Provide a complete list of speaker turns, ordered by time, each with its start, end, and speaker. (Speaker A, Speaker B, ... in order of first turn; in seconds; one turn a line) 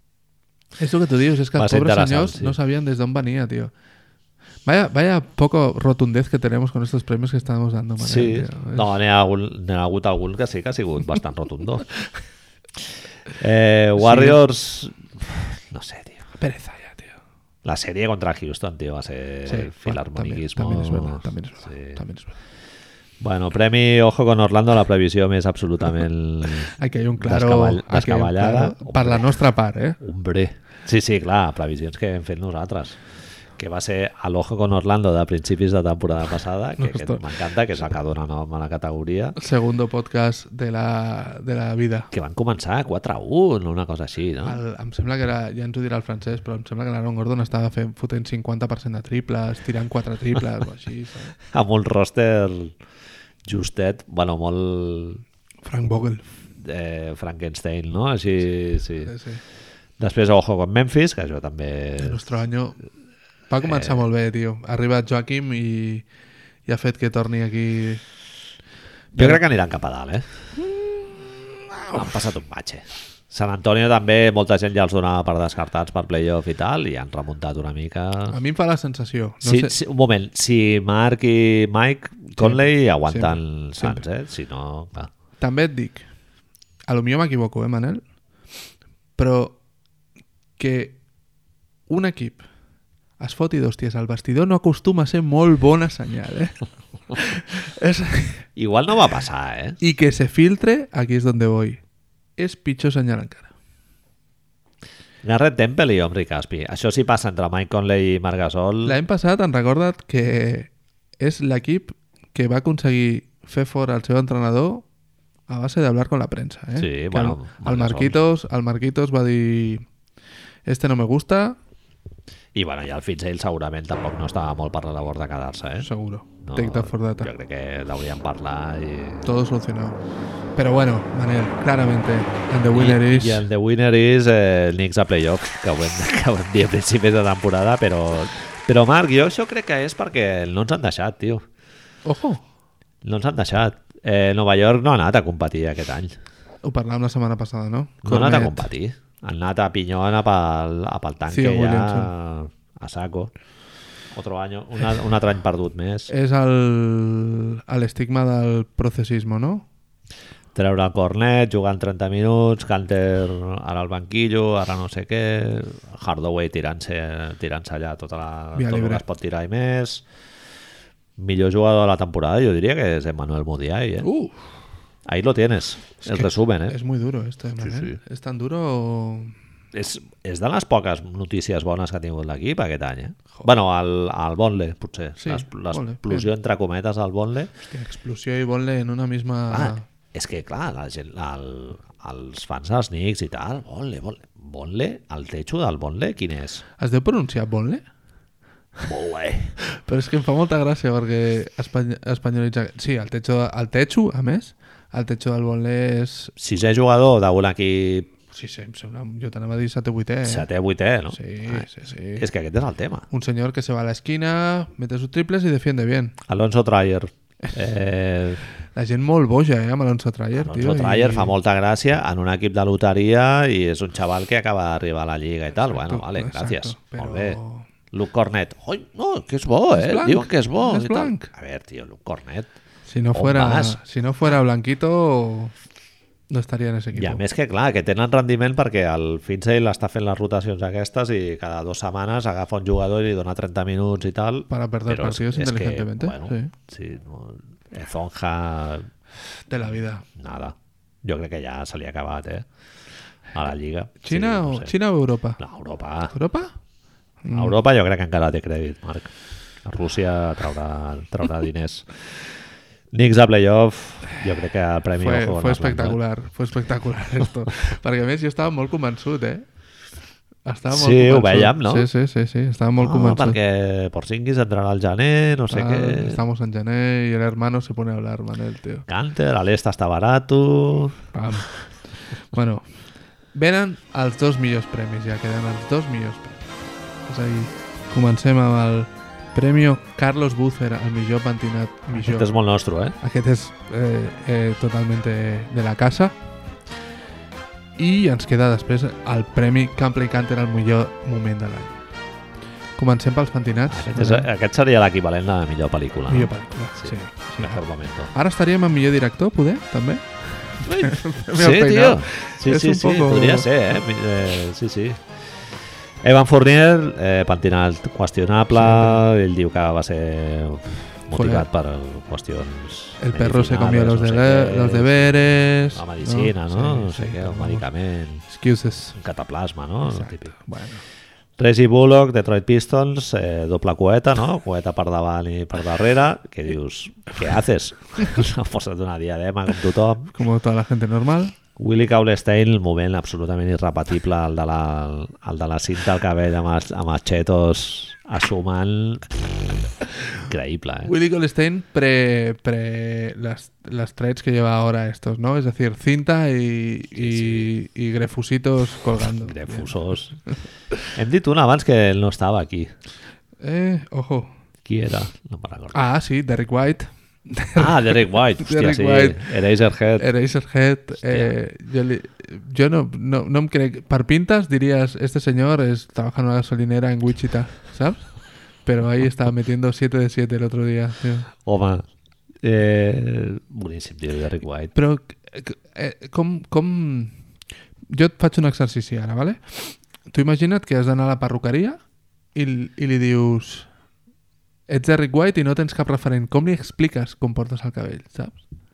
Speaker A: 0.8-3.7
Speaker B: 1.6-2.5
Speaker A: 4.7-8.9
Speaker B: 8.0-12.0
Speaker B: 13.4-16.2
Speaker A: 14.0-14.4
Speaker A: 16.4-17.1
Speaker B: 17.6-22.0
Speaker A: 19.4-22.3
Speaker B: 23.2-29.4
Speaker A: 26.7-30.0
Speaker B: 30.0-33.0
Speaker B: 33.6-39.4
Speaker A: 36.8-37.2
Speaker A: 39.4-42.1
Speaker B: 42.1-44.6
Speaker A: 44.4-51.3
Speaker B: 51.5-52.8
Speaker B: 53.4-55.2
Speaker A: 55.6-56.2
Speaker B: 56.6-59.1
Speaker A: 59.0-59.4
Speaker B: 60.0-62.2
Speaker A: 62.0-62.8
Speaker A: 63.5-66.0
Speaker B: 63.6-64.0
Speaker A: 66.7-68.0
Speaker A: 69.1-69.4
Speaker B: 69.1-70.2
Speaker A: 70.7-71.1
Speaker A: 71.7-72.1
Speaker B: 71.9-78.3
Speaker A: 78.3-79.7
Speaker B: 79.4-85.1
Speaker A: 82.4-84.0
Speaker A: 85.4-86.0
Speaker A: 86.9-88.0
Speaker A: 89.2-89.6
Speaker A: 90.6-91.0
Speaker A: 91.9-92.4
Speaker A: 93.2-96.5
Speaker A: 97.1-98.4
Speaker B: 98.5-99.8
Speaker A: 99.8-101.8
Speaker A: 102.4-103.5
Speaker B: 105.2-109.0
Speaker A: 108.8-114.8
Speaker A: 115.5-119.8
Speaker B: 116.8-118.2
Speaker A: 120.7-121.5
Speaker B: 122.5-125.9
Speaker A: 125.8-127.3
Speaker B: 126.4-129.3
Speaker A: 129.2-130.0
Speaker A: 130.6-133.4
Speaker B: 132.7-141.4
Speaker A: 142.0-142.4
Speaker B: 143.0-146.2
Speaker A: 146.6-148.7
Speaker B: 148.0-153.3
Speaker A: 151.3-152.1
Speaker B: 154.1-156.1
Speaker A: 156.1-159.7
Speaker B: 160.5-170.0
Speaker A: 168.5-169.0
Speaker B: 171.2-174.1
Speaker A: 174.0-174.4
Speaker B: 175.1-176.8
Speaker A: 176.0-179.3
Speaker B: 177.6-178.0
Speaker B: 179.7-187.5
Speaker A: 185.2-186.3
Speaker A: 187.7-189.8
Speaker B: 189.5-196.6
Speaker A: 196.8-197.8
Speaker B: 198.8-199.5
Speaker A: 199.6-206.3
Speaker B: 206.4-208.1
Speaker A: 208.3-210.5
Speaker B: 210.2-213.1
Speaker A: 211.1-212.2
Speaker A: 213.1-216.2
Speaker B: 216.2-218.4
Speaker A: 218.7-221.3
Speaker B: 220.3-227.4
Speaker A: 225.6-227.7
Speaker B: 227.9-232.5
Speaker A: 229.7-231.3
Speaker A: 232.9-235.5
Speaker B: 233.1-233.8
Speaker A: 236.3-237.2
Speaker B: 236.9-248.9
Speaker A: 244.5-246.5
Speaker A: 249.5-250.0
Speaker B: 250.1-252.5
Speaker B: 253.3-254.7
Speaker A: 254.0-255.4
Speaker B: 255.4-256.1
Speaker A: 256.1-256.5
Speaker A: 257.2-257.5
Speaker B: 257.3-259.1
Speaker B: 259.6-262.1
Speaker B: 262.9-266.0
Speaker A: 265.0-269.4
Speaker A: 270.4-273.4
Speaker B: 270.7-271.9
Speaker B: 272.8-276.2
Speaker A: 275.5-278.9
Speaker B: 278.9-281.0
Speaker A: 281.1-281.5
Speaker A: 282.1-282.6
Speaker A: 283.3-292.3
Speaker B: 291.9-292.9
Speaker A: 293.0-296.1
Speaker A: 297.8-301.8
Speaker A: 302.8-304.3
Speaker B: 303.7-308.1
Speaker A: 306.1-313.5
Speaker B: 310.6-315.0
Speaker B: 316.0-328.2
Speaker A: 318.6-319.0
Speaker A: 321.1-321.4
Speaker A: 323.0-327.7
Speaker A: 328.3-329.0
Speaker B: 328.9-330.3
Speaker A: 329.9-330.8
Speaker B: 331.4-340.1
Speaker A: 340.1-341.3
Speaker B: 341.6-349.1
Speaker B: 350.2-350.9
Speaker A: 350.8-359.7
Speaker B: 356.9-357.5
Speaker B: 359.2-360.2
Speaker B: 360.9-362.7
Speaker A: 363.4-364.3
Speaker B: 364.6-365.8
Speaker A: 365.7-369.3
Speaker B: 367.6-370.1
Speaker A: 370.0-378.1
Speaker A: 378.6-381.3
Speaker B: 381.4-381.8
Speaker B: 382.4-384.7
Speaker A: 384.7-387.1
Speaker A: 387.9-391.8
Speaker A: 392.3-393.7
Speaker A: 394.7-398.4